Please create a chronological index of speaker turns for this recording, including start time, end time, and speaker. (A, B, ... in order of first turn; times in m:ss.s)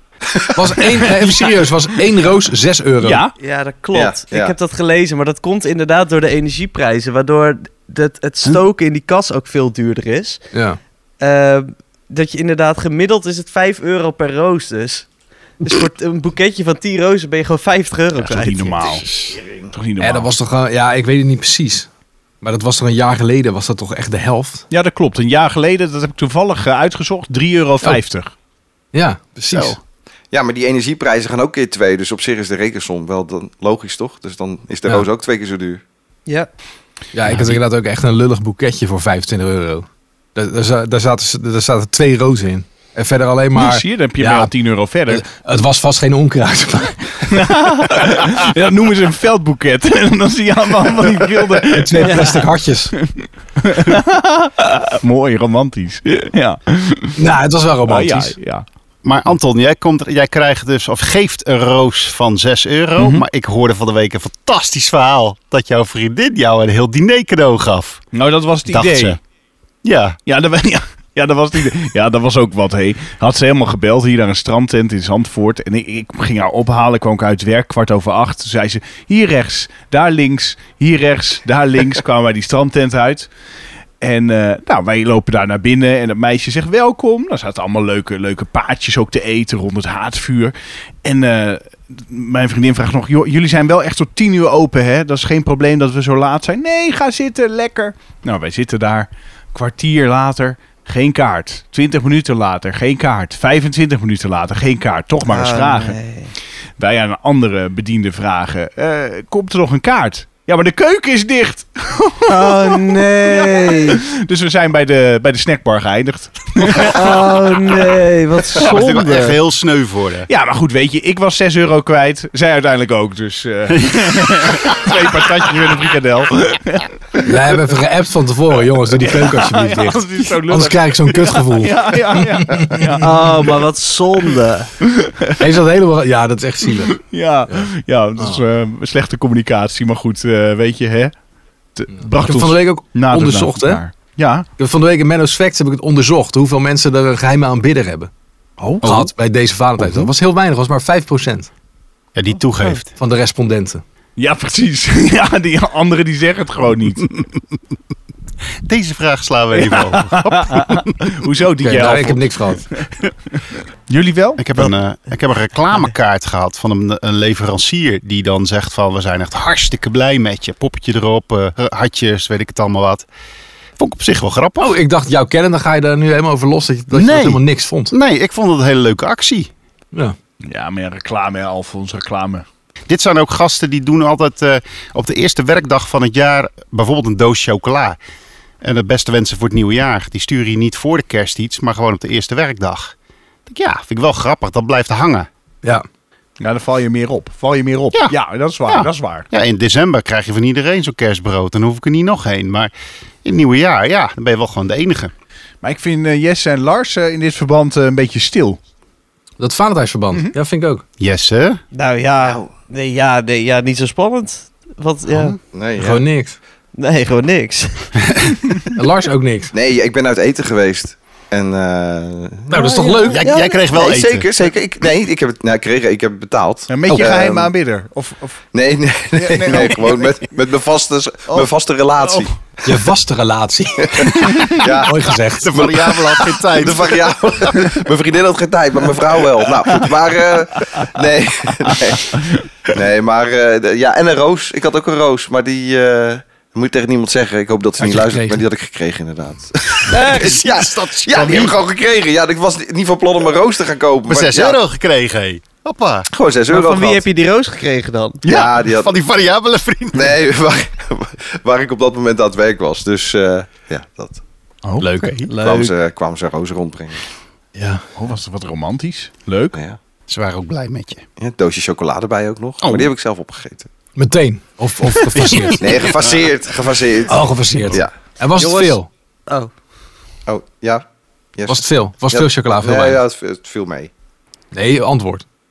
0:00.3-0:00.8 A
0:00.6-0:03.2 B
0:00.8-0:01.5 C
0:03.0-0:03.3 C
0:03.4-0:10.4 D
0:03.9-0:04.5 A
0:10.5-0:10.8 B
0:11.2-0:15.1 D
0:15.6-0:19.0 D
0:18.2-0:19.1 C
0:19.3-0:19.7 A
0:19.7-0:20.3 C
0:20.0-0:21.9 B
0:22.4-0:24.6 B
0:24.7-0:28.3 C
0:28.9-0:29.8 B
0:29.5-0:29.8 E
0:30.3-0:35.8 A
0:37.1-0:44.5 B
0:43.6-0:45.2 C
0:45.1-0:47.4 B
0:47.3-0:52.4 C
0:51.7-0:52.9 B
0:52.0-0:52.4 D
0:53.0-0:57.2 C
0:57.2-0:58.4 B
0:57.9-0:58.6 C
0:59.0-1:08.0 E
1:03.0-1:03.2 C
1:08.1-1:09.2 C
1:08.7-1:09.2 E
1:09.8-1:10.2 E
1:10.3-1:23.3 C
1:24.0-1:46.0 C
1:45.3-1:46.3 D
1:46.8-1:57.3 C
1:52.3-1:54.0 D
1:56.7-1:59.4 D
1:58.6-2:00.3 E
2:00.3-2:07.3 C
2:07.2-2:13.0 B
2:09.0-2:13.5 C
2:13.0-2:14.7 D
2:14.8-2:15.4 C
2:15.4-2:17.0 B
2:16.9-2:21.1 C
2:21.8-2:24.5 C
2:22.2-2:23.8 B
2:24.6-2:28.1 B
2:28.6-2:28.9 C
2:28.8-2:31.5 B
2:29.8-2:30.1 E
2:32.2-2:32.9 E
2:32.9-2:33.8 B
2:34.2-2:37.2 C
2:38.6-2:41.0 E
2:39.6-2:44.7 C
2:41.6-2:42.7 B
2:44.4-2:53.1 E
2:53.8-2:54.8 E
2:54.6-2:57.9 B
2:56.9-2:59.5 E
3:00.4-3:02.4 C
3:02.9-3:08.0 E
3:08.6-3:12.9 E
3:13.5-3:15.3 E
3:16.4-3:19.3 C
3:18.7-3:22.7 E
3:23.2-3:25.1 E
3:25.6-3:28.6 C
3:29.4-3:30.8 B
3:31.0-3:31.6 E
3:31.7-3:35.4 D
3:32.2-3:32.5 A
3:35.1-3:35.4 E
3:35.5-3:36.0 A
3:35.8-3:36.4 B
3:36.8-3:37.9 D
3:38.8-3:39.5 B
3:39.5-3:47.5 A
3:42.5-3:43.3 B
3:42.5-3:43.2 D
3:43.1-3:44.3 E
3:46.7-3:48.4 C
3:48.5-3:52.3 A
3:49.2-3:50.1 C
3:52.6-3:55.6 B
3:53.8-4:14.6 A
3:55.4-3:57.2 E
4:07.8-4:08.4 B
4:09.9-4:10.4 D
4:09.9-4:11.6 E
4:14.1-4:16.1 E
4:16.1-4:17.0 A
4:16.5-4:18.2 D
4:18.2-4:18.9 A
4:18.3-4:20.2 E
4:19.9-4:24.2 A
4:24.8-4:25.3 E
4:25.3-4:25.7 D
4:25.4-4:27.0 A
4:27.6-4:27.8 B
4:28.0-4:29.6 C
4:30.1-4:31.0 E
4:31.2-4:33.7 A
4:32.6-4:32.9 E
4:34.0-4:35.8 B
4:35.3-4:35.7 E
4:35.6-4:37.9 A
4:37.1-4:38.9 B
4:38.4-4:38.8 D
4:40.3-4:40.8 A
4:41.4-4:43.9 A
4:41.5-4:43.0 B
4:44.5-4:45.2 B